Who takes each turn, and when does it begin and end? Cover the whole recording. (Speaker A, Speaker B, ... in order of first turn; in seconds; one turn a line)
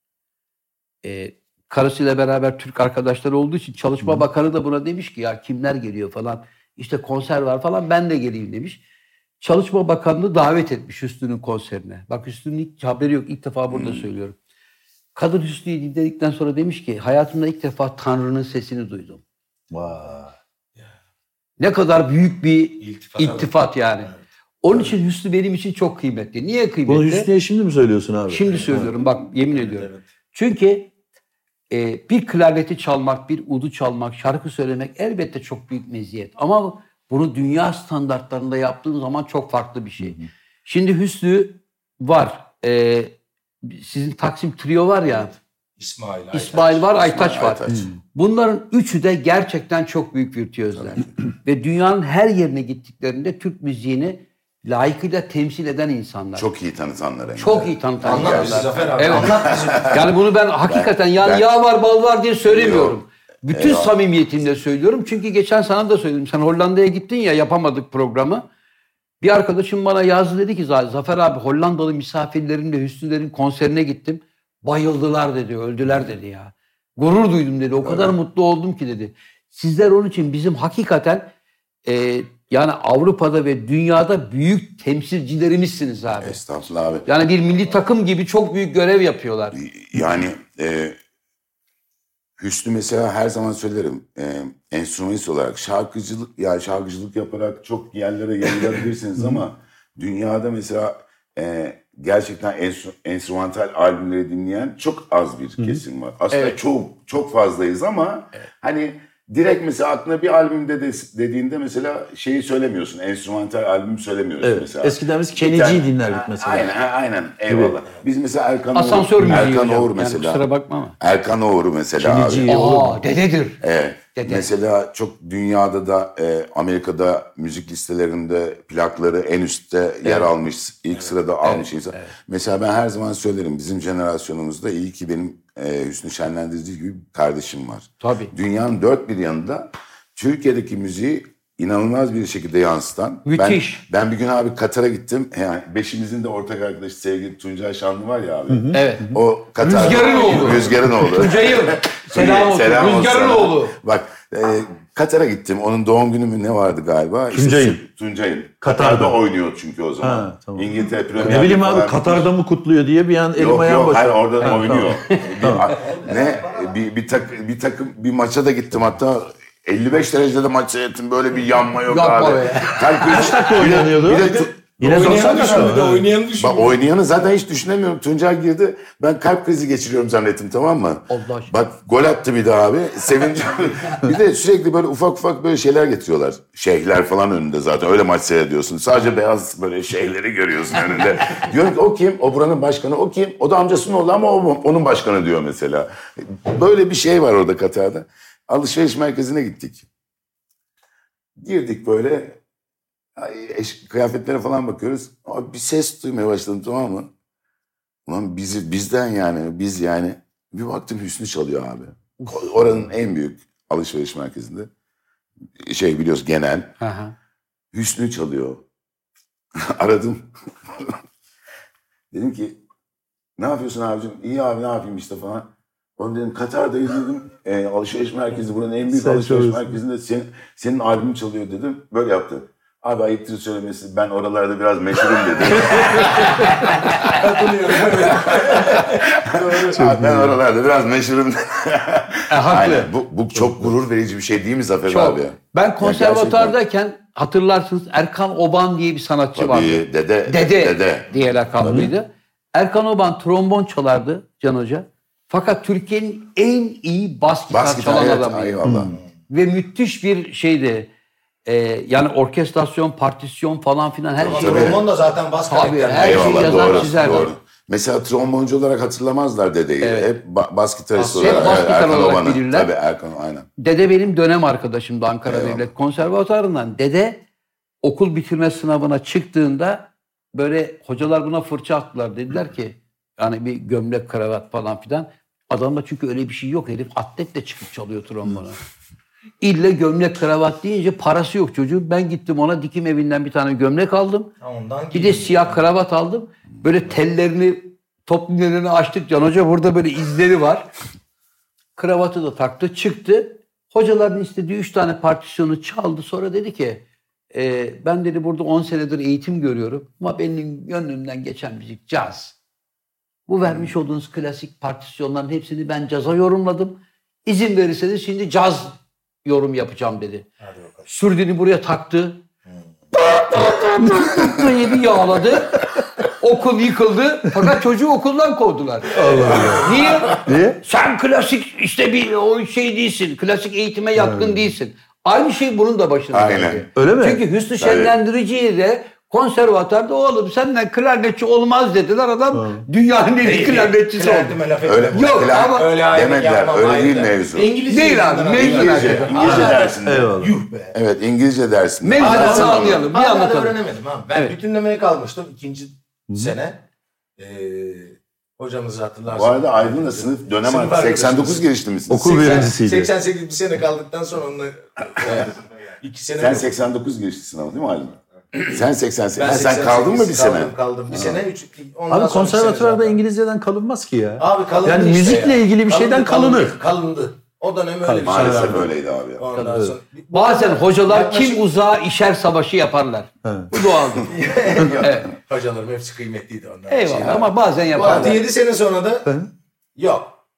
Speaker A: 1.0-8.8
Speaker A: 9.4-14.3
Speaker B: 13.7-14.0
Speaker A: 15.1-19.2
Speaker C: 19.7-20.3
Speaker A: 21.6-24.1
Speaker D: 22.8-24.2
Speaker A: 24.6-27.3
Speaker C: 26.9-28.9
Speaker A: 28.3-30.9
Speaker D: 28.5-30.0
Speaker A: 31.7-45.3
Speaker D: 45.8-46.9
Speaker A: 46.3-56.5
Speaker B: 46.9-47.9
Speaker B: 50.7-51.1
Speaker B: 56.4-60.1
Speaker A: 57.4-68.5
Speaker D: 58.0-60.1
Speaker B: 60.7-61.5
Speaker B: 62.4-63.0
Speaker B: 63.5-64.0
Speaker A: 69.2-81.3
Speaker B: 77.8-78.1
Speaker A: 81.8-86.4
Speaker B: 86.2-87.1
Speaker A: 87.0-89.6
Speaker B: 89.5-91.0
Speaker B: 92.4-120.5
Speaker A: 106.3-106.6
Speaker C: 114.4-116.7
Speaker C: 117.5-117.8
Speaker A: 118.7-121.0
Speaker B: 121.0-122.6
Speaker C: 122.0-123.0
Speaker A: 122.5-123.6
Speaker B: 123.6-162.3
Speaker A: 124.1-124.5
Speaker A: 130.0-130.3
Speaker A: 131.4-132.1
Speaker A: 138.0-138.3
Speaker A: 143.2-143.8
Speaker C: 148.5-149.2
Speaker A: 148.7-153.8
Speaker D: 150.0-150.4
Speaker C: 150.5-151.3
Speaker C: 157.3-157.8
Speaker C: 158.6-159.2
Speaker C: 160.0-165.7
Speaker B: 163.3-175.6
Speaker D: 165.7-166.8
Speaker A: 171.8-173.3
Speaker C: 173.0-176.1
Speaker D: 174.1-176.8
Speaker B: 176.4-199.8
Speaker A: 181.1-181.5
Speaker B: 201.4-202.4
Speaker B: 203.2-207.1
Speaker B: 208.1-214.7
Speaker B: 215.6-216.8
Speaker A: 216.8-217.1
Speaker B: 217.7-218.6
Speaker B: 219.6-220.9
Speaker B: 222.1-222.6
Speaker B: 223.4-236.9
Speaker C: 228.9-229.8
Speaker A: 235.9-236.1
Speaker D: 236.9-239.8
Speaker B: 238.1-246.6
Speaker C: 239.7-240.4
Speaker A: 242.3-242.9
Speaker A: 244.9-258.6
Speaker B: 249.3-251.8
Speaker C: 251.6-251.9
Speaker B: 257.5-258.9
Speaker C: 258.6-258.9
Speaker A: 259.3-260.9
Speaker A: 261.4-264.8
Speaker B: 264.2-264.8
Speaker D: 264.2-267.3
Speaker A: 265.5-267.3
Speaker B: 266.0-273.5
Speaker A: 269.8-270.1
Speaker D: 271.0-271.7
Speaker A: 271.1-272.7
Speaker A: 273.6-277.2
Speaker B: 275.2-275.7
Speaker A: 277.8-288.6
Speaker A: 289.4-294.3
Speaker D: 294.4-295.6
Speaker A: 294.9-300.7
Speaker A: 301.8-312.4
Speaker A: 313.3-320.3
Speaker D: 320.4-320.9
Speaker A: 320.9-322.2
Speaker A: 322.9-344.4
Speaker C: 328.9-330.6
Speaker D: 329.1-329.8
Speaker C: 333.9-334.5
Speaker B: 336.1-336.7
Speaker C: 336.8-337.2
Speaker B: 337.6-337.9
Speaker C: 342.3-342.6
Speaker D: 343.2-350.7
Speaker B: 344.6-347.5
Speaker A: 344.9-345.7
Speaker A: 347.7-349.7
Speaker B: 348.3-350.2
Speaker C: 349.2-350.4
Speaker B: 350.7-352.8
Speaker A: 351.8-353.6
Speaker D: 352.0-356.6
Speaker D: 357.2-361.4
Speaker B: 359.1-362.5
Speaker C: 361.9-362.9
Speaker D: 362.0-366.5
Speaker B: 366.2-371.2
Speaker D: 369.2-373.0
Speaker C: 371.9-376.6
Speaker D: 374.2-381.5
Speaker C: 377.8-378.7
Speaker B: 378.0-379.3
Speaker C: 379.5-379.7
Speaker A: 380.1-385.1
Speaker C: 383.2-383.5
Speaker D: 384.1-389.1
Speaker A: 386.7-388.2
Speaker D: 389.8-390.2